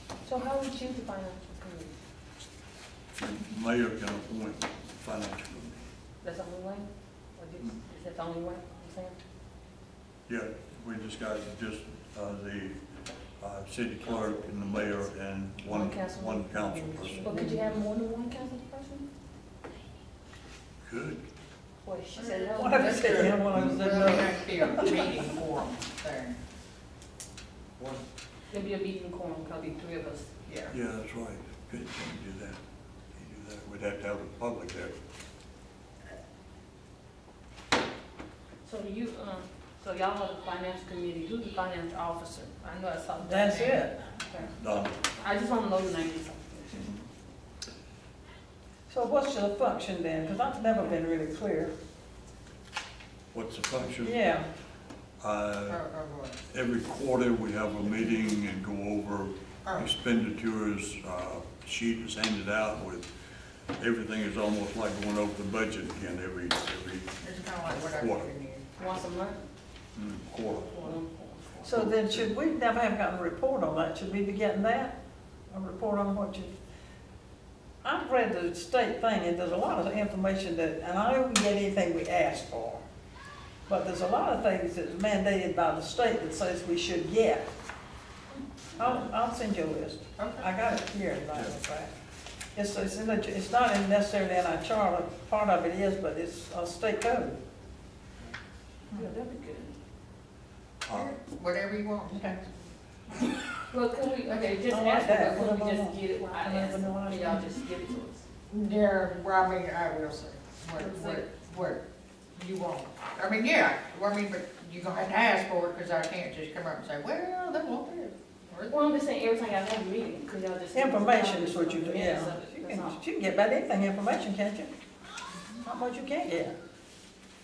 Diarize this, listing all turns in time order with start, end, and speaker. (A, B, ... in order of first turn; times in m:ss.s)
0:00.2-0:01.9 A
0:03.2-0:05.9 B
0:06.2-0:09.2 A
0:10.3-0:12.8 B
0:13.4-0:17.4 B
0:15.6-0:19.1 A
0:17.2-0:17.6 C
0:20.8-0:21.2 B
0:21.8-0:23.4 A
0:22.2-0:26.4 D
0:22.6-0:25.1 C
0:27.8-0:28.0 B
0:28.5-0:30.3 A
0:30.5-0:30.8 D
0:30.7-0:32.6 B
0:33.1-0:34.9 B
0:38.6-0:44.5 A
0:43.2-0:43.9 C
0:44.5-0:45.0 B
0:45.1-0:47.0 A
0:48.9-0:51.7 C
0:53.3-0:54.2 B
0:54.0-0:54.5 C
0:55.2-0:55.8 B
0:55.7-0:56.4 D
0:56.5-1:03.1 B
1:03.8-1:08.3 B
1:07.2-1:08.6 D
1:08.8-1:09.4 A
1:10.0-1:10.7 B
1:10.6-1:11.8 A
1:11.6-1:15.0 C
1:11.7-1:12.3 B
1:15.5-1:16.5 C
1:17.8-1:22.8 C
1:23.7-1:27.5 C
1:28.8-1:31.9 C
1:30.2-1:30.5 D
1:32.6-1:37.4 C
1:38.9-1:39.8 A
1:40.8-1:41.1 B
1:40.9-1:42.5 D
1:42.1-1:42.4 C
1:43.7-1:48.2 A
1:44.7-1:47.6 C
1:48.5-1:51.8 D
1:50.8-1:51.2 A
1:52.4-1:58.8 D
1:58.7-2:03.0 A
2:00.8-2:04.7 C
2:05.6-2:06.6 C